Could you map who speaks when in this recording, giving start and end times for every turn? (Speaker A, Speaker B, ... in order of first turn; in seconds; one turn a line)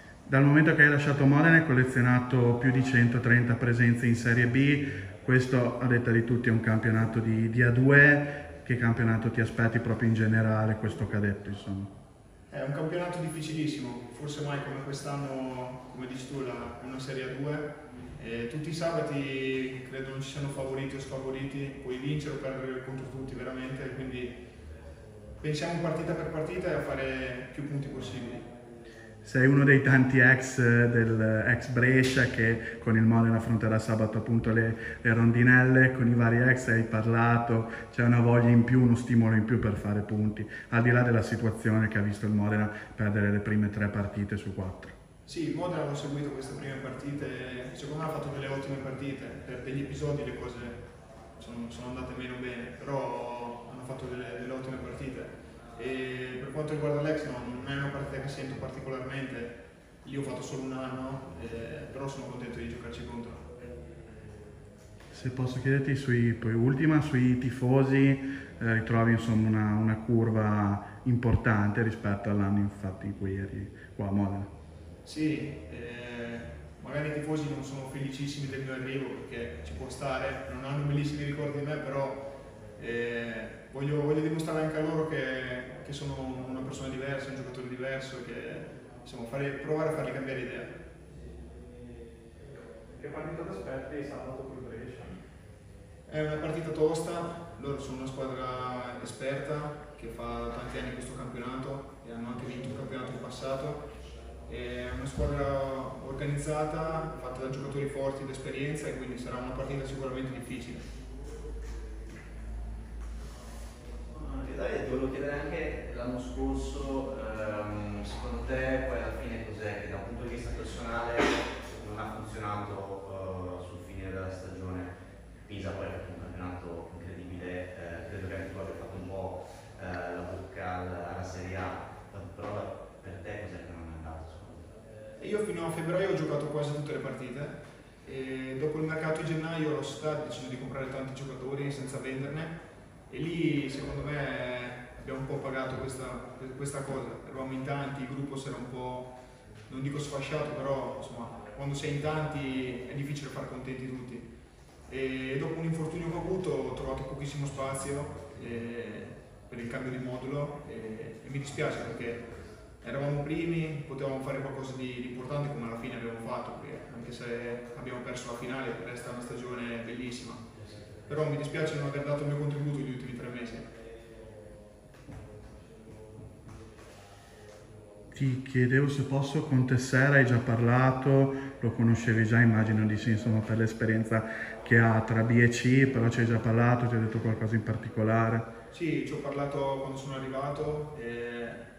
Speaker A: 0.2-11.9
Speaker B: 12.5-24.4
Speaker B: 25.4-28.4
Speaker A: 29.2-44.9
Speaker B: 45.2-50.8
Speaker B: 51.4-63.5
Speaker A: 65.1-74.5
Speaker B: 75.0-90.7
Speaker C: 93.0-95.2
Speaker B: 96.1-103.8
Speaker B: 104.5-110.8
Speaker D: 114.1-124.9
Speaker D: 125.5-134.7
Speaker B: 135.2-142.6
Speaker B: 143.1-149.1
Speaker B: 149.7-154.3
Speaker B: 154.9-162.3
Speaker B: 162.8-170.4
Speaker B: 171.1-173.7
Speaker A: 178.1-188.5
Speaker B: 188.7-191.6